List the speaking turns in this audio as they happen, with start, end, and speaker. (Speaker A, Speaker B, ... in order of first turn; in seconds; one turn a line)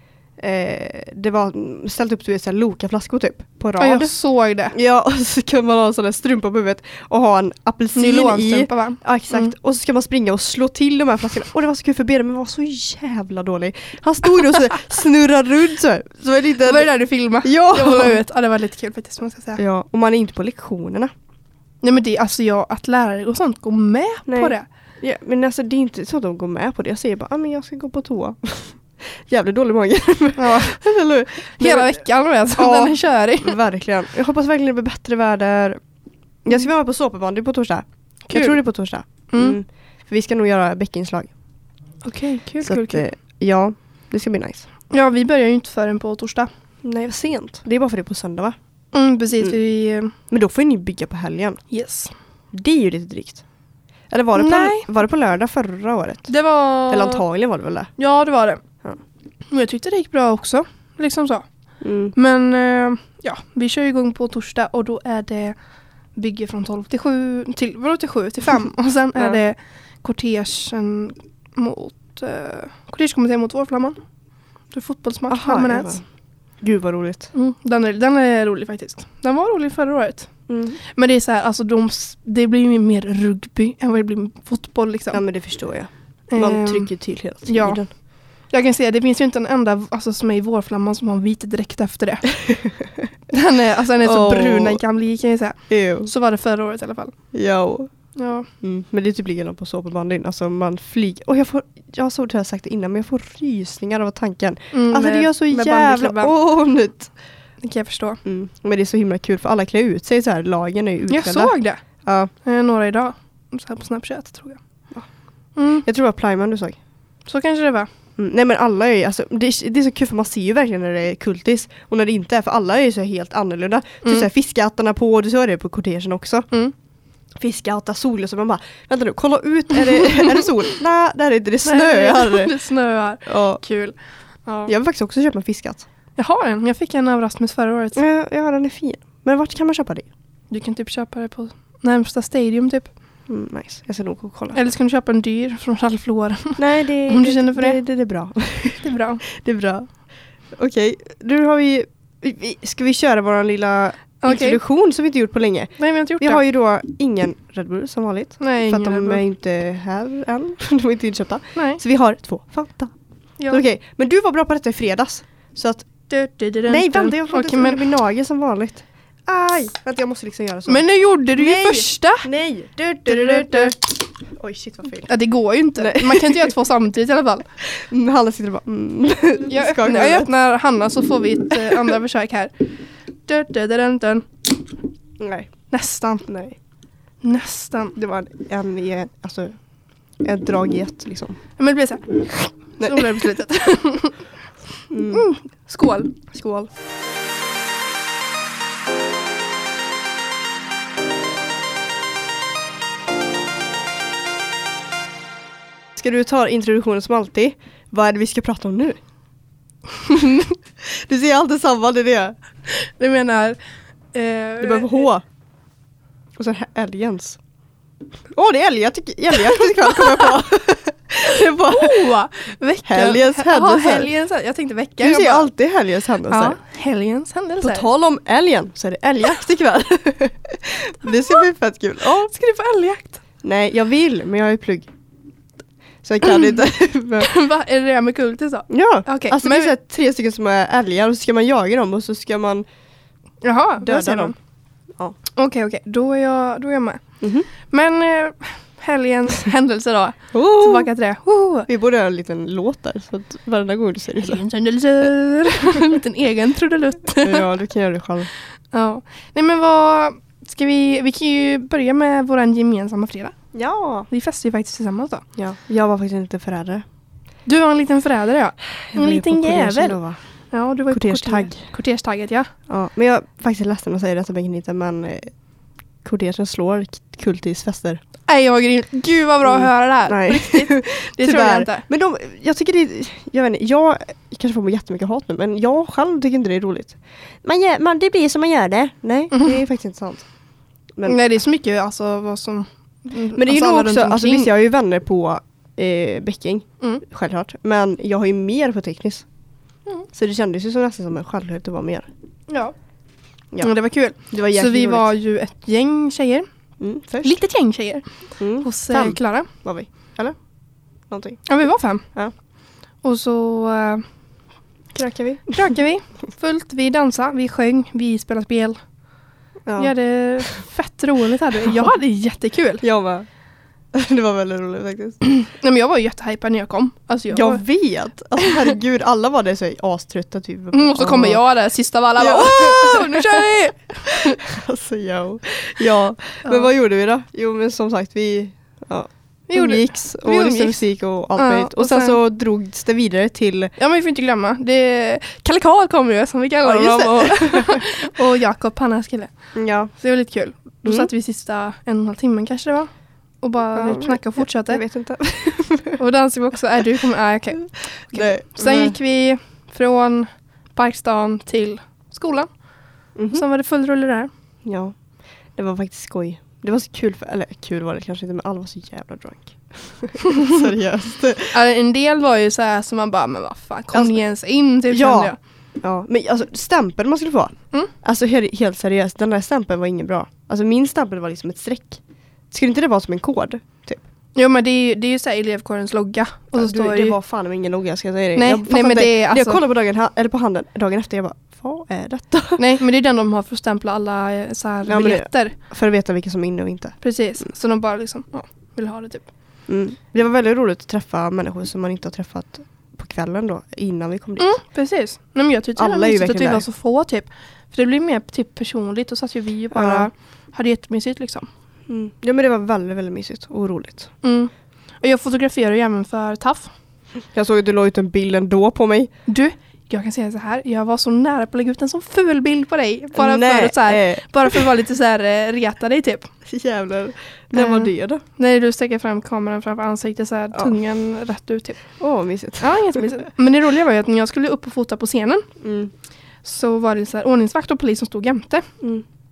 Speaker A: 0.4-4.1
Speaker B: 3.8-4.8
Speaker A: 4.7-16.9
Speaker B: 8.0-9.5
Speaker B: 16.6-19.6
Speaker A: 17.4-18.2
Speaker A: 19.6-21.1
Speaker B: 21.8-24.7
Speaker A: 24.3-31.9
Speaker B: 30.4-30.8
Speaker B: 31.6-33.6
Speaker A: 32.5-35.8
Speaker A: 36.5-41.3
Speaker B: 38.3-38.6
Speaker B: 39.3-39.6
Speaker B: 42.0-43.0
Speaker A: 42.6-44.7
Speaker B: 44.9-46.5
Speaker A: 46.8-48.6
Speaker B: 48.9-50.1
Speaker A: 50.3-51.6
Speaker B: 51.7-52.1
Speaker A: 52.5-53.4
Speaker A: 54.1-56.3
Speaker B: 54.4-54.9
Speaker B: 56.3-57.2
Speaker A: 56.9-57.9
Speaker B: 58.0-58.6
Speaker B: 59.5-61.5
Speaker A: 61.8-62.1
Speaker B: 62.1-65.6
Speaker B: 66.2-74.0
Speaker B: 74.7-76.0
Speaker A: 75.3-76.0
Speaker A: 76.6-77.3
Speaker B: 77.3-80.3
Speaker A: 80.5-80.8
Speaker B: 80.8-85.2
Speaker A: 85.1-87.9
Speaker B: 86.3-86.9
Speaker B: 87.5-87.8
Speaker B: 88.5-92.3
Speaker A: 92.4-93.1
Speaker B: 93.3-97.1
Speaker A: 94.0-94.8
Speaker A: 95.7-96.1
Speaker A: 97.3-97.9
Speaker B: 98.2-98.5
Speaker A: 98.6-107.1
Speaker B: 104.7-106.3
Speaker B: 107.6-108.2
Speaker A: 108.2-111.5
Speaker B: 111.1-111.8
Speaker A: 112.0-112.3
Speaker B: 112.4-114.6
Speaker B: 115.6-115.8
Speaker A: 115.8-116.8
Speaker B: 117.3-117.9
Speaker A: 118.2-126.5
Speaker A: 127.4-132.5
Speaker B: 130.0-130.4
Speaker B: 131.6-134.0
Speaker A: 133.3-133.6
Speaker B: 134.5-134.7
Speaker A: 134.7-135.8
Speaker B: 136.2-138.0
Speaker A: 137.9-140.1
Speaker B: 140.5-142.9
Speaker A: 143.3-144.6
Speaker B: 144.5-147.8
Speaker A: 146.6-149.9
Speaker B: 148.8-149.2
Speaker A: 150.6-162.9
Speaker B: 154.2-154.6
Speaker B: 155.8-156.4
Speaker B: 158.4-159.2
Speaker B: 161.6-161.8
Speaker A: 163.5-165.9
Speaker B: 166.1-167.9
Speaker A: 166.7-170.8
Speaker B: 170.7-172.3
Speaker A: 171.4-175.1
Speaker B: 173.1-173.8
Speaker B: 175.1-177.5
Speaker A: 175.8-176.5
Speaker A: 177.6-180.3
Speaker B: 179.5-182.7
Speaker B: 183.3-184.6
Speaker A: 185.2-185.5
Speaker B: 185.7-186.3
Speaker A: 186.3-186.6
Speaker B: 187.2-188.0
Speaker A: 188.0-189.6
Speaker A: 190.2-191.4
Speaker B: 191.6-194.3
Speaker A: 192.8-193.2
Speaker A: 194.9-195.3
Speaker B: 195.1-196.2
Speaker A: 196.3-196.7
Speaker A: 206.0-209.0
Speaker B: 210.1-210.5
Speaker A: 210.8-212.4
Speaker B: 212.7-213.6
Speaker B: 214.1-215.1
Speaker A: 214.6-215.2
Speaker A: 216.4-217.4
Speaker A: 218.3-222.1
Speaker B: 221.6-225.5
Speaker A: 222.9-224.1
Speaker A: 225.0-226.6
Speaker B: 226.3-227.9
Speaker A: 227.6-232.3
Speaker B: 231.1-231.4
Speaker B: 232.2-233.2
Speaker A: 233.4-234.9
Speaker A: 236.0-237.3
Speaker B: 236.2-236.5
Speaker B: 237.2-239.7
Speaker A: 238.7-242.7
Speaker B: 243.4-244.3
Speaker A: 243.8-244.3
Speaker B: 245.3-251.7
Speaker A: 247.2-247.5
Speaker A: 250.3-250.9
Speaker A: 251.7-254.4
Speaker B: 254.2-257.5
Speaker A: 257.2-258.3
Speaker B: 258.7-263.4
Speaker A: 263.5-264.1
Speaker B: 264.1-265.2
Speaker A: 265.4-266.8
Speaker B: 267.5-270.0
Speaker A: 268.9-270.2
Speaker B: 270.5-272.5
Speaker A: 270.9-271.6
Speaker A: 272.7-275.3
Speaker A: 276.0-278.0
Speaker B: 278.3-281.8
Speaker A: 279.4-290.2
Speaker B: 289.3-289.6
Speaker B: 291.0-294.5
Speaker A: 293.4-299.2
Speaker A: 300.1-302.1
Speaker B: 302.5-302.7
Speaker B: 303.6-306.5
Speaker A: 304.3-305.1
Speaker A: 306.8-307.4
Speaker B: 307.2-308.1
Speaker A: 308.4-310.4
Speaker B: 308.6-309.5
Speaker A: 311.1-311.4
Speaker B: 311.5-312.1
Speaker B: 313.0-314.0
Speaker A: 314.9-315.7
Speaker B: 315.5-318.8
Speaker A: 319.7-319.9
Speaker B: 319.8-322.8
Speaker A: 322.8-323.3
Speaker A: 323.9-325.2
Speaker B: 325.2-327.6
Speaker A: 327.3-331.4
Speaker B: 330.7-334.4
Speaker A: 332.2-333.5
Speaker A: 334.1-343.7
Speaker B: 336.4-336.7
Speaker B: 339.5-340.8
Speaker B: 341.4-342.2
Speaker B: 343.8-349.3
Speaker A: 346.6-347.9
Speaker A: 349.6-349.9
Speaker B: 349.9-352.9
Speaker A: 350.8-351.1
Speaker B: 353.4-354.8
Speaker A: 353.7-356.0
Speaker B: 356.0-362.5
Speaker A: 358.0-359.0
Speaker A: 363.2-363.4
Speaker B: 363.3-364.3
Speaker A: 364.6-364.9
Speaker A: 365.6-371.6
Speaker B: 371.5-375.4
Speaker A: 374.9-382.0
Speaker A: 382.5-384.0
Speaker B: 384.4-387.2
Speaker A: 386.6-392.6
Speaker B: 388.4-389.6
Speaker B: 392.6-395.6
Speaker A: 394.9-397.0
Speaker B: 397.0-399.3
Speaker A: 399.7-404.6
Speaker B: 404.4-411.5
Speaker A: 405.8-406.6
Speaker A: 409.7-410.1
Speaker A: 411.9-414.1
Speaker B: 414.2-414.5
Speaker B: 415.0-416.7
Speaker A: 417.3-419.1
Speaker B: 419.3-426.3
Speaker A: 423.2-424.6
Speaker A: 426.5-428.2
Speaker B: 427.5-431.8
Speaker A: 432.0-433.2
Speaker B: 432.6-435.5
Speaker A: 435.6-435.9
Speaker B: 436.4-438.7